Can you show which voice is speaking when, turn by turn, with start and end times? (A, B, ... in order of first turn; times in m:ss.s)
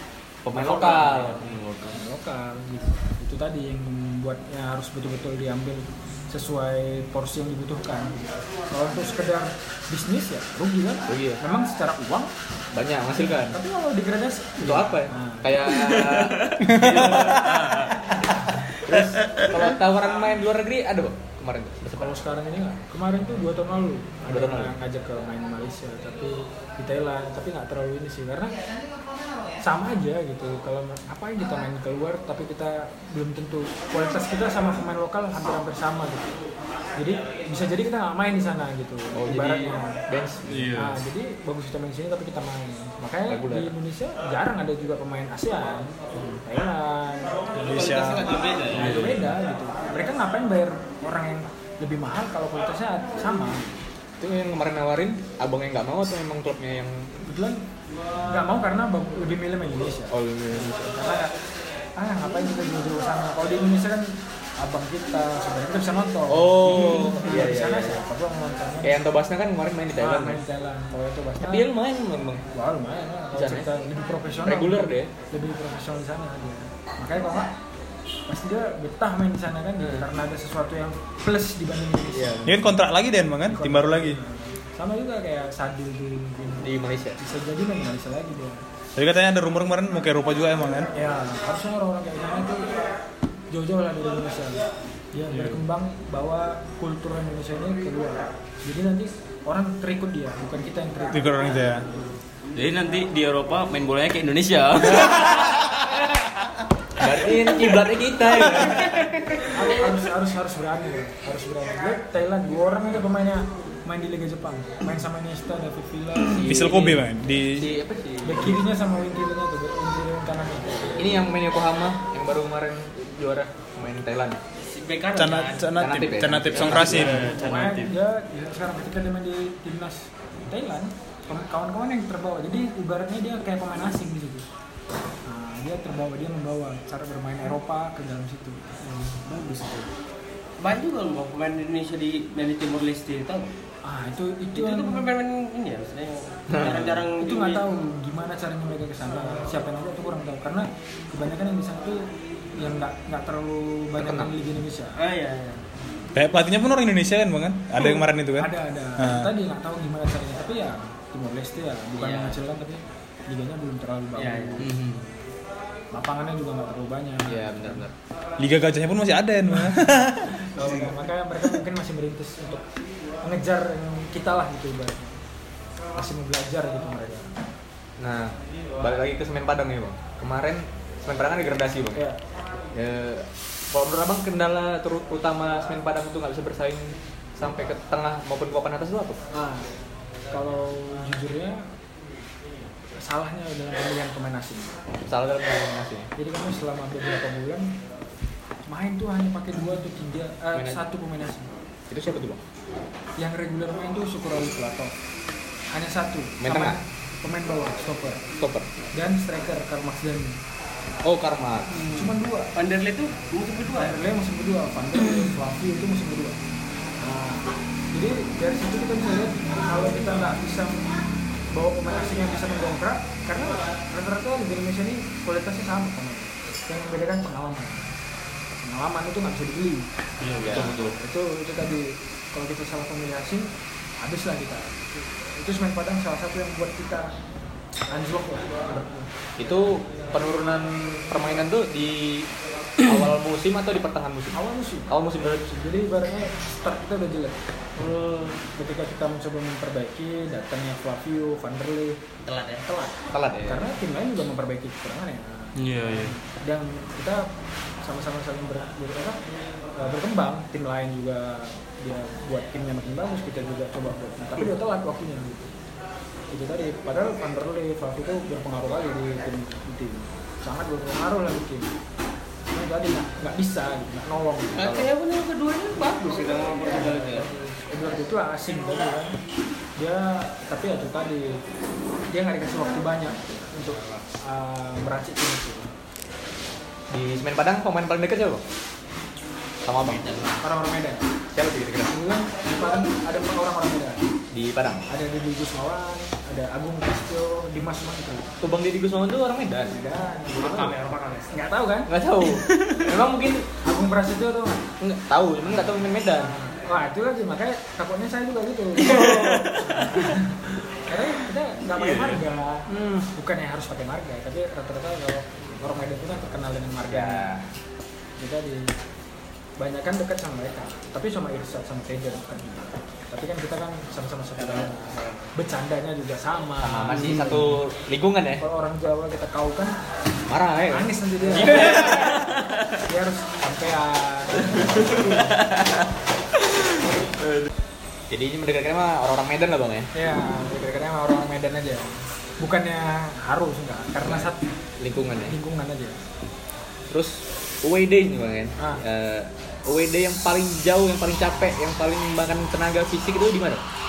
0:00.4-0:01.5 A
0:00.6-0:01.1 B
0:01.4-0:02.0 C
0:01.9-0:12.3 B
0:11.1-0:11.4 A
0:12.7-0:13.6 A
0:13.3-0:15.5 B
0:14.6-0:17.9 A
0:15.9-0:17.9 C
0:16.6-0:17.3 D
0:16.8-0:17.2 B
0:18.7-0:22.2 A
0:22.0-0:28.5 B
0:24.3-0:24.7 A
0:29.6-0:36.4 B
0:37.0-0:40.0 B
0:39.2-0:40.5 A
0:40.4-0:41.0 C
0:40.7-0:47.5 B
0:43.3-0:43.7 A
0:47.6-0:48.4 D
0:47.6-0:49.0 E
0:48.7-0:53.8 B
0:48.7-0:49.3 C
0:54.2-0:57.2 A
0:57.2-0:57.6 B
0:58.2-1:01.4 B
1:00.1-1:00.9 A
1:02.0-1:09.0 B
1:06.3-1:08.0 A
1:08.8-1:10.4 A
1:10.0-1:11.7 B
1:11.4-1:12.4 A
1:12.5-1:17.5 B
1:13.4-1:13.7 A
1:14.4-1:15.1 A
1:18.3-1:22.5 B
1:22.1-1:22.6 A
1:22.4-1:24.2 D
1:23.5-1:28.6 B
1:26.6-1:27.2 A
1:29.0-1:30.9 D
1:30.9-1:32.8 B
1:33.5-1:41.7 B
1:35.3-1:35.6 C
1:41.1-1:41.9 D
1:42.5-1:45.6 C
1:47.0-1:49.1 A
1:49.5-1:56.5 B
1:56.3-1:58.6 A
1:56.4-1:57.7 D
1:58.2-2:01.3 B
2:01.0-2:04.4 A
2:04.7-2:05.7 E
2:05.2-2:07.2 D
2:05.8-2:07.3 A
2:06.6-2:08.0 C
2:06.9-2:14.5 B
2:15.2-2:18.7 B
2:18.8-2:19.9 E
2:20.6-2:23.5 E
2:23.8-2:25.1 B
2:24.6-2:27.6 E
2:26.5-2:27.0 A
2:27.2-2:35.0 B
2:34.0-2:34.3 A
2:35.0-2:35.7 E
2:36.1-2:39.3 D
2:37.7-2:44.7 B
2:42.0-2:42.4 E
2:44.2-2:44.7 E
2:44.6-2:45.1 C
2:45.9-2:47.8 B
2:47.3-2:47.9 A
2:48.4-2:50.9 D
2:50.5-2:52.6 B
2:53.2-2:55.2 B
2:56.0-2:57.3 B
2:58.0-3:02.0 A
3:02.7-3:09.2 A
3:09.3-3:09.7 B
3:10.3-3:11.7 B
3:13.0-3:14.8 B
3:15.1-3:16.1 A
3:16.2-3:17.7 B
3:18.7-3:21.5 B
3:20.6-3:20.8 A
3:21.9-3:22.4 A
3:23.2-3:24.9 B
3:25.7-3:28.2 B
3:26.4-3:26.8 A
3:28.4-3:28.7 A
3:28.9-3:30.4 B
3:31.0-3:31.8 A
3:31.7-3:34.0 E
3:31.9-3:32.5 B
3:33.8-3:36.4 B
3:37.0-3:40.9 B
3:41.5-3:47.9 B
3:48.6-3:49.9 B
3:50.2-3:51.0 C
3:50.4-3:50.8 A
3:50.5-3:57.1 B
3:57.9-3:59.1 B
3:59.4-4:04.4 A
4:04.3-4:07.4 B
4:04.9-4:05.5 A
4:07.8-4:08.4 E
4:08.6-4:12.0 B
4:12.2-4:12.7 E
4:12.7-4:17.3 B
4:13.1-4:13.7 A
4:15.6-4:16.2 C
4:17.8-4:19.2 B
4:19.8-4:25.5 B
4:26.3-4:31.7 B
4:32.5-4:34.9 B
4:34.6-4:37.3 E
4:36.7-4:39.2 B
4:39.8-4:41.4 B
4:42.1-4:45.7 B
4:46.9-4:48.4 A
4:49.6-4:50.3 A
4:50.4-4:51.1 B
4:51.3-4:51.9 A
4:51.9-4:54.1 B
4:54.3-4:54.8 A
4:54.9-4:58.3 B
4:58.4-4:59.8 A
4:59.7-5:00.8 B
5:00.4-5:01.4 E
5:01.3-5:01.9 B
5:01.9-5:03.5 A
5:03.6-5:04.7 B
5:04.8-5:06.3 A
5:06.1-5:17.3 B
5:08.9-5:09.6 C
5:11.8-5:12.2 C
5:16.9-5:17.5 A
5:18.2-5:18.7 B
5:19.6-5:27.6 B
5:26.6-5:28.4 A
5:28.4-5:29.8 B
5:30.3-5:32.1 A
5:30.7-5:32.2 B
5:31.9-5:32.4 C
5:32.8-5:35.4 B
5:38.1-5:39.9 A
5:39.9-5:44.5 B
5:44.8-5:45.4 A
5:45.2-5:46.0 B
5:46.9-5:53.6 A